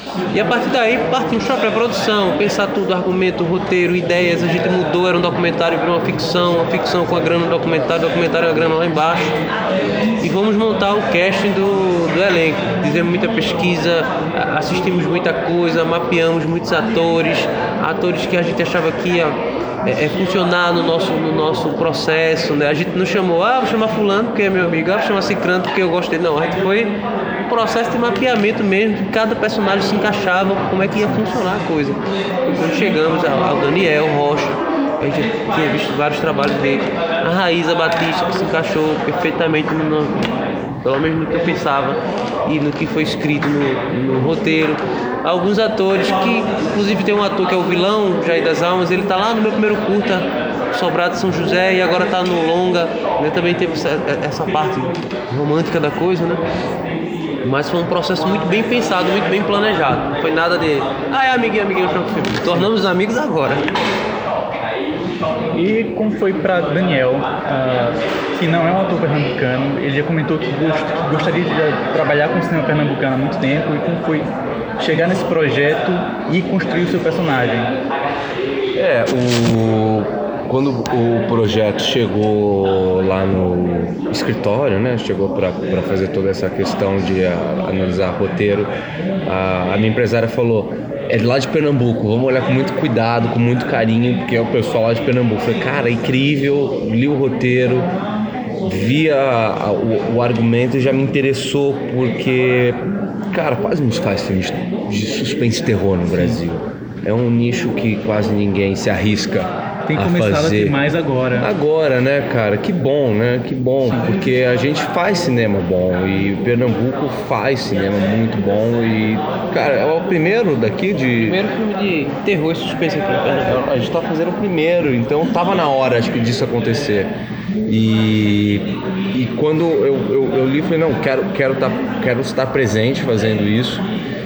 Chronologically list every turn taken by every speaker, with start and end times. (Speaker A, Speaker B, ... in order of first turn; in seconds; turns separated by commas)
Speaker A: 0.3-9.5, Speaker A: 10.2-40.3, Speaker A: 40.8-56.4, Speaker A: 57.4-63.7, Speaker B: 65.5-77.7, Speaker C: 78.7-88.7, Speaker C: 89.2-97.9, Speaker C: 98.6-110.8, Speaker B: 106.1-106.4, Speaker B: 109.8-111.5, Speaker C: 111.4-121.4, Speaker B: 113.8-114.2, Speaker A: 121.2-123.7, Speaker C: 123.5-127.1, Speaker C: 127.7-133.9